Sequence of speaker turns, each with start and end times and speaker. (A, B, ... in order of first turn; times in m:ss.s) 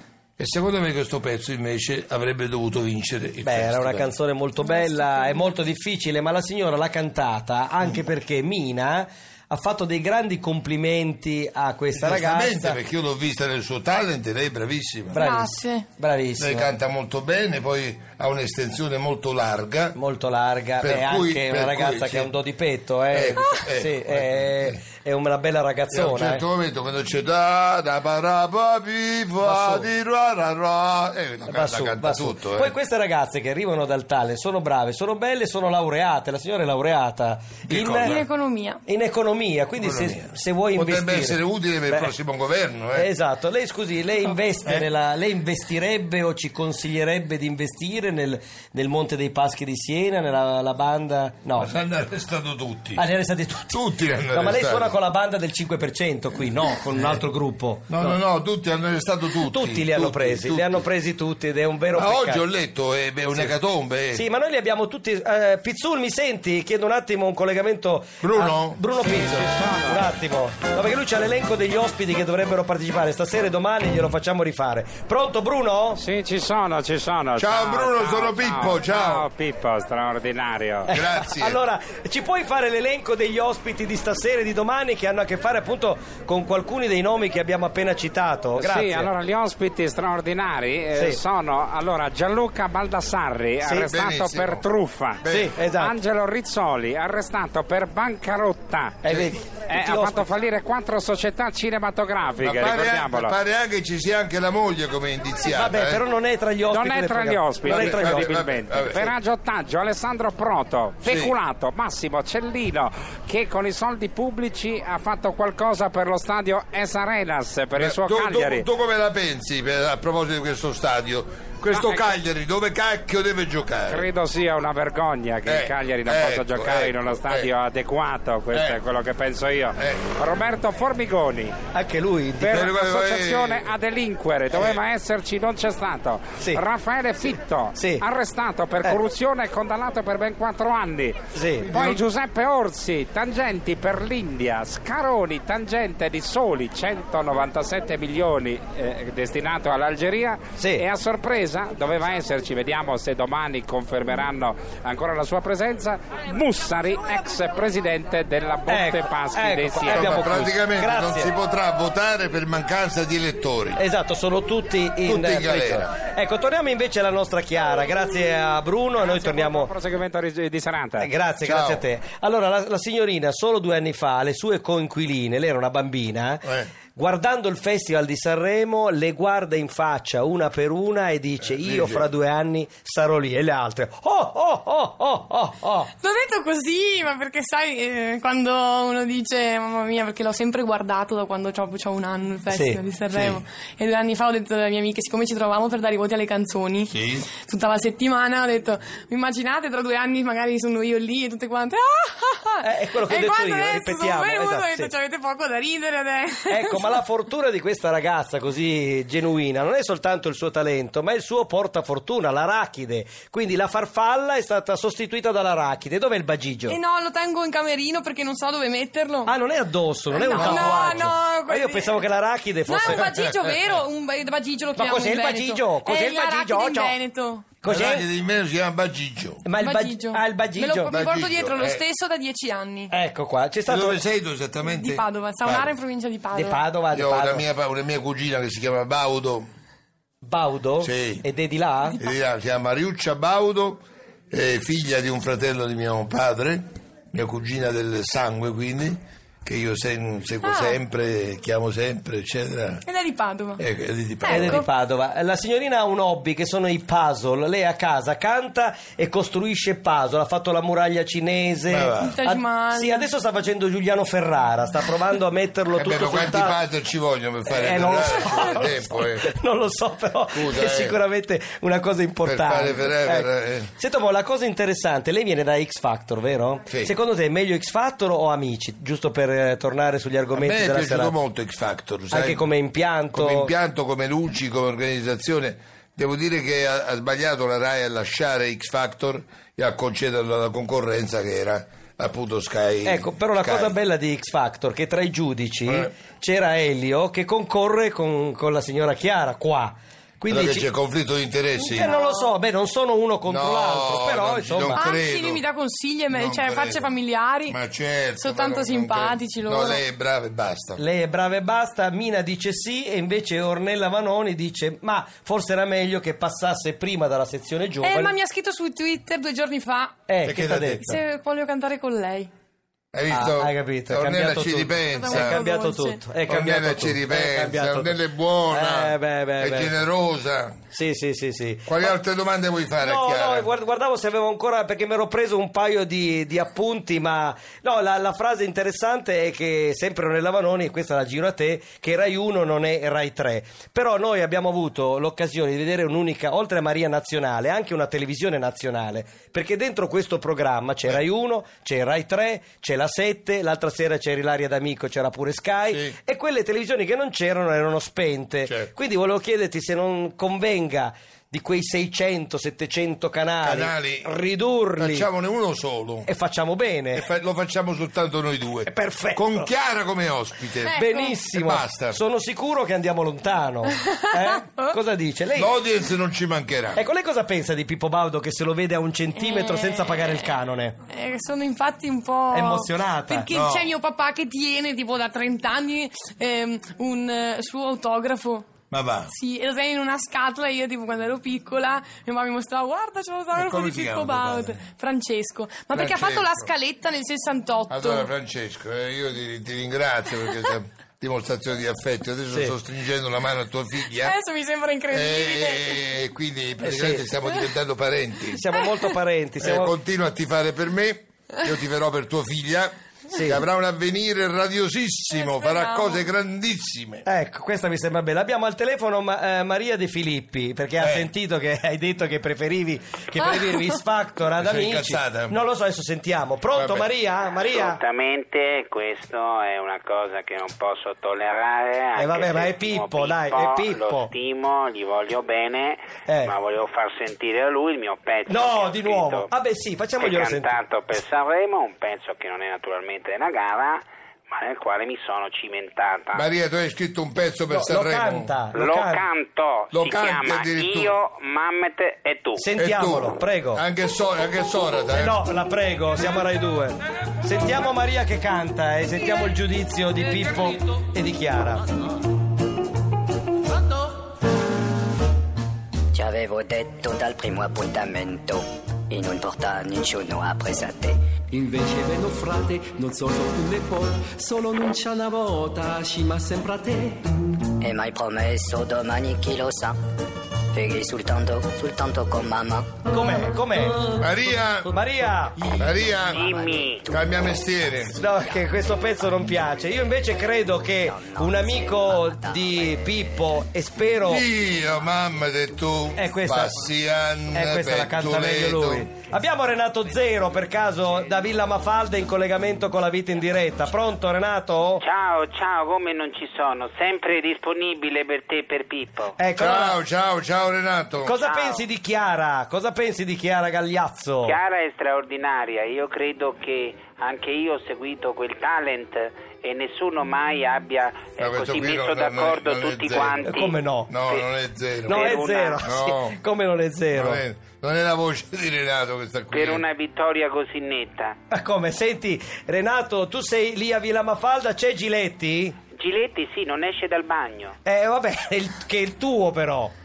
0:00.4-0:04.1 A
0:03.4-0:12.8 B
0:11.9-0:15.2 A
0:15.1-0:16.7 B
0:15.2-0:15.9 C
0:16.4-0:20.0 A
0:20.0-0:26.4 B
0:20.8-0:22.4 A
0:23.1-0:24.8 A
0:25.9-0:32.7 A
0:29.4-0:29.9 B
0:31.5-0:38.2 B
0:37.6-0:38.2 A
0:38.0-0:38.8 C
0:38.9-0:42.1 B
0:39.8-0:43.1 A
0:42.9-0:51.7 B
0:51.6-0:53.1 A
0:53.0-0:58.2 B
0:53.7-0:55.0 A
0:56.9-0:57.2 A
0:57.9-1:00.8 A
0:59.4-1:02.4 B
1:01.9-1:04.2 A
1:04.1-1:16.0 B
1:08.2-1:08.8 A
1:09.0-1:10.1 D
1:16.0-1:20.9 D
1:17.4-1:19.3 A
1:20.9-1:29.1 B
1:20.9-1:21.6 A
1:28.6-1:43.4 D
1:30.9-1:31.2 B
1:33.6-1:33.9 B
1:33.8-1:34.6 A
1:35.2-1:35.5 A
1:35.2-1:36.0 B
1:39.0-1:40.3 B
1:39.0-1:39.4 A
1:42.4-1:46.0 A
1:45.4-1:48.4 B
1:46.7-1:58.7 D
1:47.6-1:49.1 A
1:51.0-1:51.4 A
1:57.8-2:04.1 A
2:01.7-2:02.2 D
2:03.9-2:11.6 D
2:05.5-2:07.5 A
2:08.5-2:08.8 A
2:09.8-2:10.1 A
2:11.7-2:12.7 B
2:12.4-2:40.5 D
2:12.5-2:13.7 A
2:14.5-2:14.8 A
2:17.7-2:18.0 B
2:21.3-2:22.0 B
2:30.6-2:30.9 B
2:38.7-2:41.3 B
2:39.9-2:43.8 A
2:43.8-2:49.7 B
2:45.0-2:45.9 A
2:49.0-2:51.1 D
2:51.0-3:05.9 B
2:51.4-2:51.8 A
2:56.4-2:56.7 A
3:01.6-3:02.1 A
3:06.0-3:27.0 C
3:12.5-3:12.8 B
3:16.9-3:17.3 A
3:22.6-3:24.9 B
3:26.5-3:36.8 B
3:36.7-3:39.3 C
3:39.2-3:43.2 B
3:40.1-3:42.0 C
3:40.3-3:40.8 A
3:42.7-3:47.6 C
3:42.9-3:43.7 A
3:44.8-3:47.0 B
3:47.6-3:48.1 B
3:47.7-3:49.4 A
3:49.4-3:51.0 B
3:49.6-3:52.9 C
3:50.9-3:51.8 A
3:52.9-3:54.0 B
3:53.7-3:55.7 A
3:54.6-3:56.6 C
3:56.3-3:57.5 B
3:56.9-3:59.5 A
4:00.2-4:02.0 B
4:00.8-4:01.2 A
4:02.0-4:12.8 A
4:10.4-4:10.8 C
4:12.8-4:13.6 C
4:13.6-4:14.6 A
4:14.2-4:14.7 C
4:14.3-4:26.6 B
4:21.7-4:22.2 A
4:22.0-4:23.1 C
4:25.7-4:29.3 A
4:27.5-4:41.2 B
4:30.3-4:31.0 A
4:32.2-4:33.7 A
4:36.7-4:36.9 A
4:40.3-4:42.5 A
4:42.1-4:43.5 B
4:43.1-4:53.7 A
4:52.8-5:00.7 B
5:00.3-5:01.9 A
5:01.6-5:02.3 C
5:01.7-5:04.9 B
5:03.2-5:05.4 A
5:04.8-5:07.6 C
5:06.1-5:06.9 A
5:07.5-5:10.8 A
5:08.2-5:09.8 C
5:10.8-5:18.2 B
5:17.8-5:20.1 C
5:20.1-5:21.0 B
5:20.2-5:20.9 A
5:20.8-5:22.3 C
5:22.9-5:25.4 A
5:23.1-5:29.8 B
5:25.0-5:26.0 C
5:26.3-5:30.6 A
5:30.7-5:32.0 B
5:31.7-5:33.5 A
5:32.8-6:05.1 B
5:55.7-5:56.0 A
5:58.5-5:58.7 A
6:03.4-6:04.2 A
6:04.8-6:06.1 A
6:06.0-6:07.0 B
6:06.9-6:10.8 A
6:08.7-6:09.5 B
6:10.6-6:11.2 C
6:10.8-6:15.6 B
6:11.3-6:12.0 A
6:13.7-6:14.8 C
6:15.3-6:16.8 A
6:16.8-6:20.8 B
6:19.2-6:20.3 C
6:20.9-6:28.5 C
6:22.3-6:23.3 B
6:23.3-6:23.7 A
6:28.7-6:29.1 A
6:29.1-6:38.1 C
6:33.3-6:34.6 A
6:35.7-6:36.5 A
6:37.7-6:44.2 A
6:42.3-6:42.6 B
6:44.0-6:45.8 C
6:44.9-6:48.4 A
6:46.6-6:47.1 B
6:48.3-6:49.8 B
6:49.4-6:57.1 A
6:53.1-6:53.4 B
6:55.1-6:56.1 C
6:57.0-7:07.8 B
7:00.8-7:01.1 A
7:04.4-7:05.4 A
7:06.5-7:06.9 A
7:07.4-7:19.3 E
7:12.0-7:14.1 B
7:16.1-7:16.3 B
7:18.3-7:20.5 B
7:20.0-7:26.2 E
7:26.1-7:28.3 A
7:27.5-7:29.1 B
7:28.6-7:32.5 E
7:29.7-7:31.0 A
7:32.4-7:33.6 B
7:32.6-7:35.2 A
7:34.9-7:41.7 B
7:45.9-7:51.0 F
7:51.3-7:57.1 G
7:57.6-7:59.8 F
8:00.5-8:02.7 F
8:02.9-8:03.8 B
8:04.0-8:04.7 A
8:04.7-8:05.5 B
8:05.6-8:06.2 A
8:06.0-8:06.8 F
8:06.1-8:06.9 E
8:06.9-8:08.0 A
8:08.0-8:14.3 B
8:11.2-8:11.7 F
8:14.0-8:18.9 A
8:16.0-8:16.7 B
8:17.3-8:24.8 B
8:24.8-8:29.2 E
8:29.2-8:29.8 B
8:29.4-8:31.1 A
8:31.0-8:34.4 B
8:31.2-8:31.6 E
8:34.2-8:43.6 E
8:41.2-8:43.2 A
8:43.2-8:43.9 B
8:43.9-8:46.2 A
8:44.8-8:45.6 E
8:44.9-8:47.2 B
8:46.9-8:49.6 A
8:49.3-8:51.2 E
8:51.3-8:55.6 B
8:55.8-8:57.5 E
8:57.6-8:59.7 B